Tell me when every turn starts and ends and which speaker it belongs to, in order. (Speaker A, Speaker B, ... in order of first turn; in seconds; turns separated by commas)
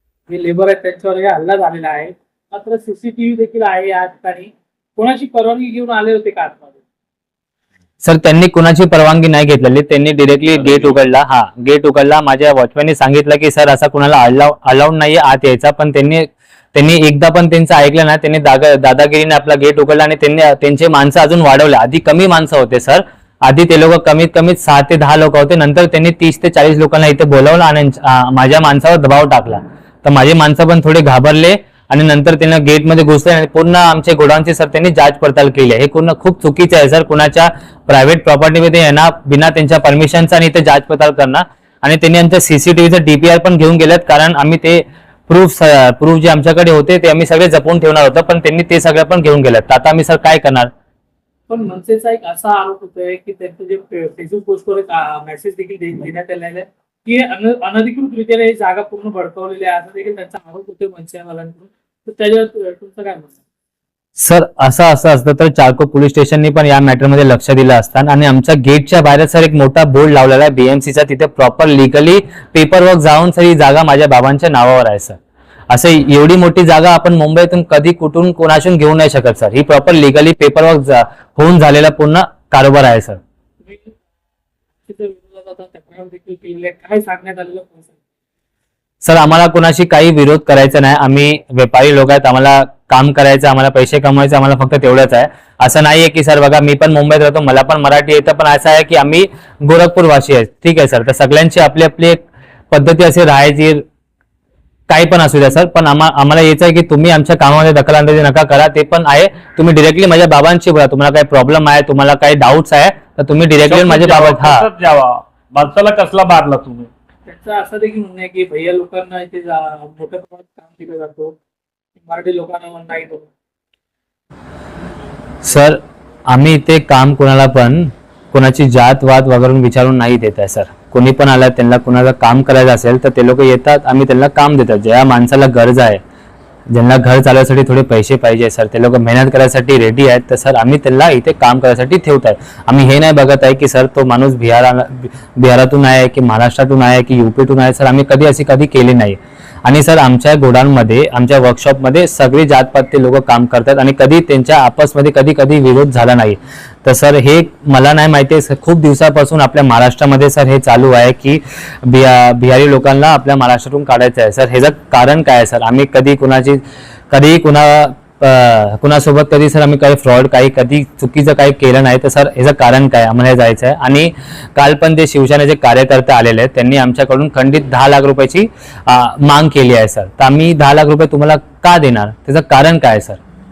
Speaker A: 0.3-6.8, Speaker B: 8.0-50.7, Speaker A: 51.5-63.4, Speaker B: 64.2-75.2, Speaker B: 75.7-83.2, Speaker A: 83.7-84.0, Speaker A: 84.8-88.0, Speaker B: 89.0-103.8, Speaker B: 104.9-114.7, Speaker C: 113.7-116.9, Speaker A: 117.3-121.3, Speaker A: 122.0-123.3, Speaker B: 125.4-136.0, Speaker B: 136.7-183.2